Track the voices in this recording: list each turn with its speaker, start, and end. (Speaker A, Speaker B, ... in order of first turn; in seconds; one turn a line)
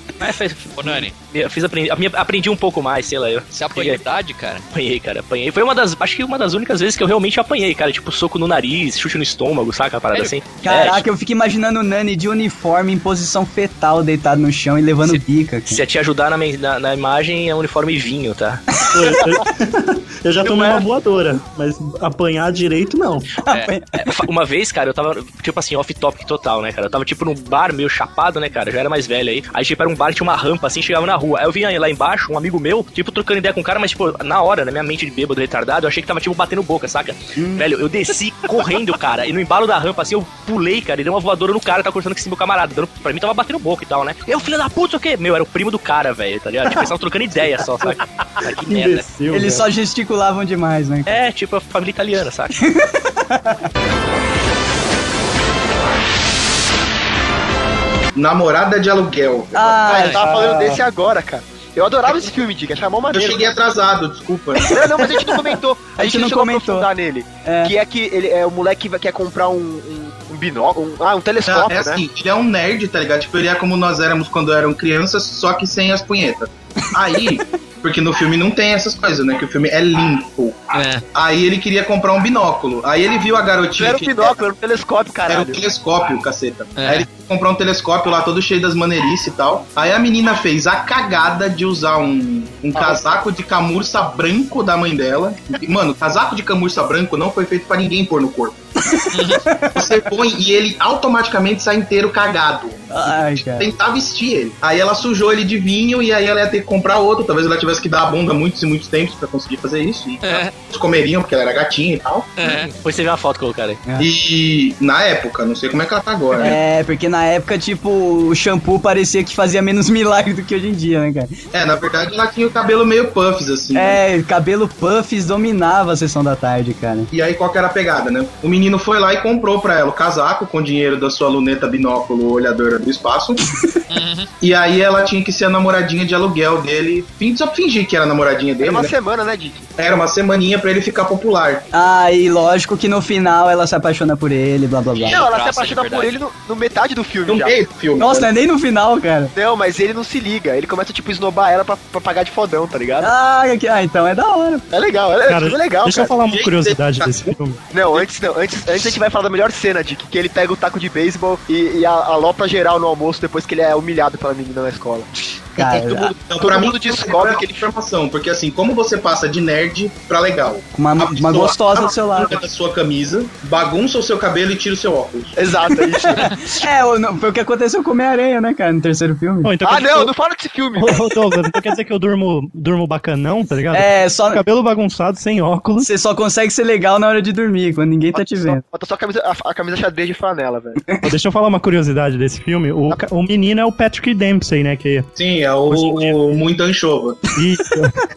Speaker A: 0.2-4.0
Speaker B: 0.8-1.1
Speaker B: 3.5-4.7
Speaker A: 4.7-11.0
Speaker C: 10.6-15.8
Speaker A: 15.7-18.6
Speaker C: 18.8-19.3
Speaker D: 18.9-23.3
Speaker C: 20.4-20.8
Speaker C: 23.5-24.1
Speaker A: 24.0-49.1
Speaker C: 37.4-37.6
Speaker D: 48.7-49.6
Speaker C: 49.3-51.1
Speaker A: 51.1-52.6
Speaker C: 52.6-53.4
Speaker E: 58.1-59.8
Speaker C: 59.5-60.5
Speaker F: 59.8-63.6
Speaker B: 60.0-60.2
Speaker D: 60.3-60.8
Speaker E: 63.1-64.8
Speaker C: 64.6-66.9
Speaker F: 64.7-72.0
Speaker C: 67.5-67.7
Speaker E: 71.5-84.4
Speaker B: 80.7-81.0
Speaker F: 83.8-85.7
Speaker E: 85.3-98.6
Speaker B: 86.8-87.1
Speaker F: 92.8-93.0
Speaker C: 98.9-99.9
Speaker B: 99.1-99.4
Speaker E: 99.8-112.3
Speaker C: 102.9-103.8
Speaker B: 110.2-110.5
Speaker B: 112.4-112.7
Speaker A: 112.4-113.8
Speaker E: 114.0-116.6
Speaker C: 116.4-121.4
Speaker E: 121.5-124.0
Speaker C: 123.7-127.1
Speaker E: 127.1-133.4
Speaker B: 133.9-134.3
Speaker E: 134.4-138.9
Speaker F: 138.6-139.7
Speaker E: 139.8-141.7
Speaker C: 141.7-145.2
Speaker B: 145.0-146.2
Speaker F: 145.0-147.6
Speaker E: 147.3-148.3
Speaker C: 148.0-149.3
Speaker F: 149.3-153.1
Speaker C: 153.0-154.6
Speaker F: 154.7-156.1
Speaker D: 155.3-157.6
Speaker E: 156.3-157.3
Speaker F: 157.7-167.7
Speaker C: 165.6-166.1
Speaker E: 165.7-175.4
Speaker C: 170.8-172.4
Speaker F: 175.4-176.3
Speaker C: 175.7-179.6
Speaker D: 179.4-180.1
Speaker F: 179.6-181.1
Speaker D: 180.8-185.9
Speaker C: 183.7-184.4
Speaker C: 185.8-188.6
Speaker F: 188.1-190.8
Speaker D: 191.0-195.1
Speaker E: 195.2-197.3
Speaker D: 195.7-196.2
Speaker D: 197.3-198.0